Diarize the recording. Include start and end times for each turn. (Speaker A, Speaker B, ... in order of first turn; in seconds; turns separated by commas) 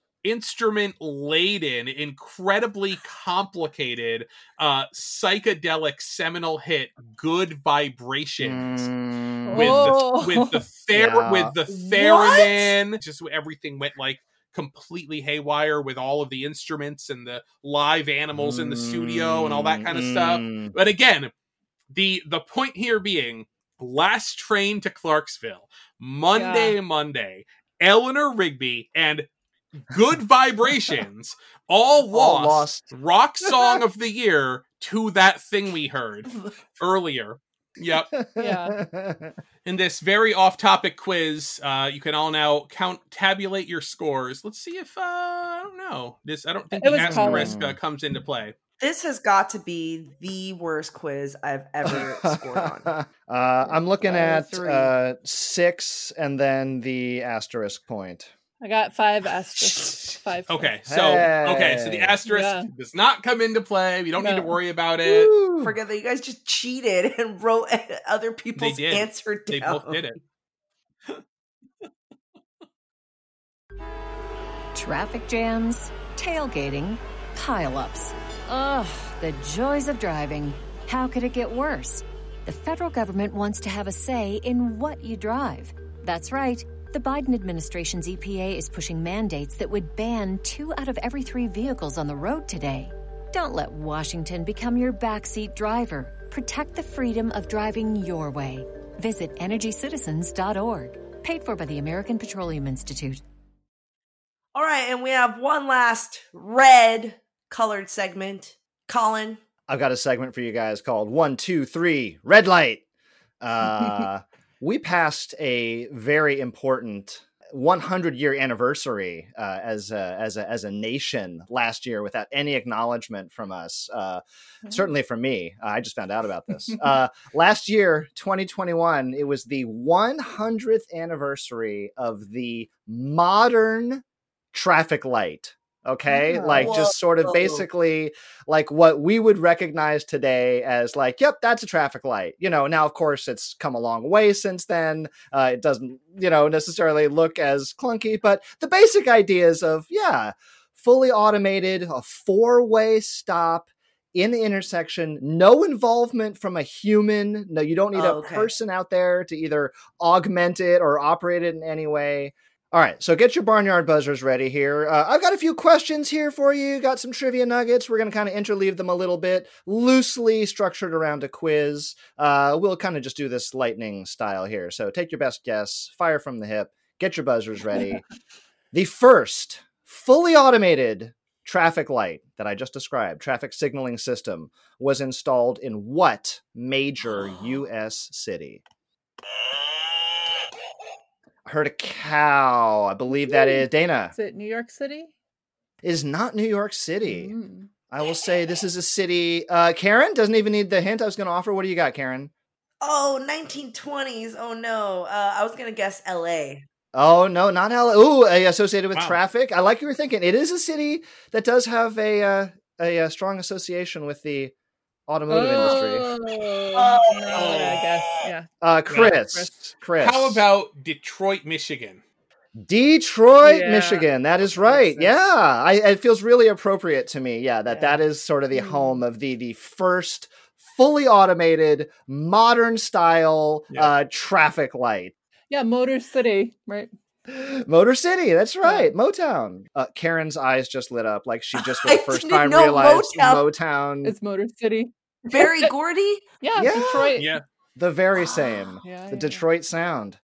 Speaker A: 0.2-8.9, Speaker B: 8.4-9.9, Speaker C: 9.4-10.6, Speaker A: 9.5-21.3, Speaker B: 10.9-11.5, Speaker D: 11.7-12.7, Speaker B: 18.3-20.7, Speaker A: 21.9-29.3, Speaker C: 26.3-26.8, Speaker A: 29.8-38.1, Speaker B: 32.1-32.9, Speaker B: 33.4-33.7, Speaker B: 38.1-39.3, Speaker C: 38.4-38.8, Speaker A: 39.6-48.5, Speaker C: 46.8-47.5, Speaker B: 46.9-47.8, Speaker D: 48.8-52.9, Speaker B: 51.8-58.3, Speaker D: 54.0-54.9, Speaker C: 58.6-60.7, Speaker D: 59.6-59.9, Speaker A: 60.5-65.3, Speaker B: 60.9-62.2, Speaker C: 62.3-62.7, Speaker C: 64.2-64.5, Speaker B: 65.0-65.8, Speaker D: 65.6-70.1, Speaker A: 68.5-70.2, Speaker E: 74.7-103.2, Speaker D: 104.5-109.4, Speaker B: 109.7-112.8, Speaker B: 113.4-178.0, Speaker C: 136.1-136.8, Speaker D: 136.5-137.7, Speaker D: 157.9-158.5, Speaker B: 178.7-188.6, Speaker B: 191.4-194.1, Speaker C: 193.3-195.1, Speaker B: 195.8-197.3, Speaker C: 197.1-197.7, Speaker B: 197.9-202.3, Speaker D: 202.8-206.7, Speaker B: 206.9-214.5, Speaker A: 208.9-209.2, Speaker B: 215.1-216.1, Speaker C: 215.3-219.5, Speaker D: 216.7-218.0, Speaker A: 217.4-217.8, Speaker B: 218.6-220.4, Speaker A: 220.0-222.0, Speaker B: 222.6-235.1, Speaker C: 223.4-224.1, Speaker D: 224.6-225.1, Speaker D: 227.7-228.0, Speaker C: 228.5-229.0, Speaker C: 235.5-236.9, Speaker B: 237.3-244.1, Speaker C: 238.6-238.9, Speaker D: 241.6-243.4, Speaker C: 244.0-245.7, Speaker D: 245.3-246.3, Speaker C: 246.4-247.4, Speaker B: 246.5-247.2, Speaker A: 247.2-247.4, Speaker B: 247.8-250.2, Speaker D: 248.2-248.8, Speaker C: 248.8-249.4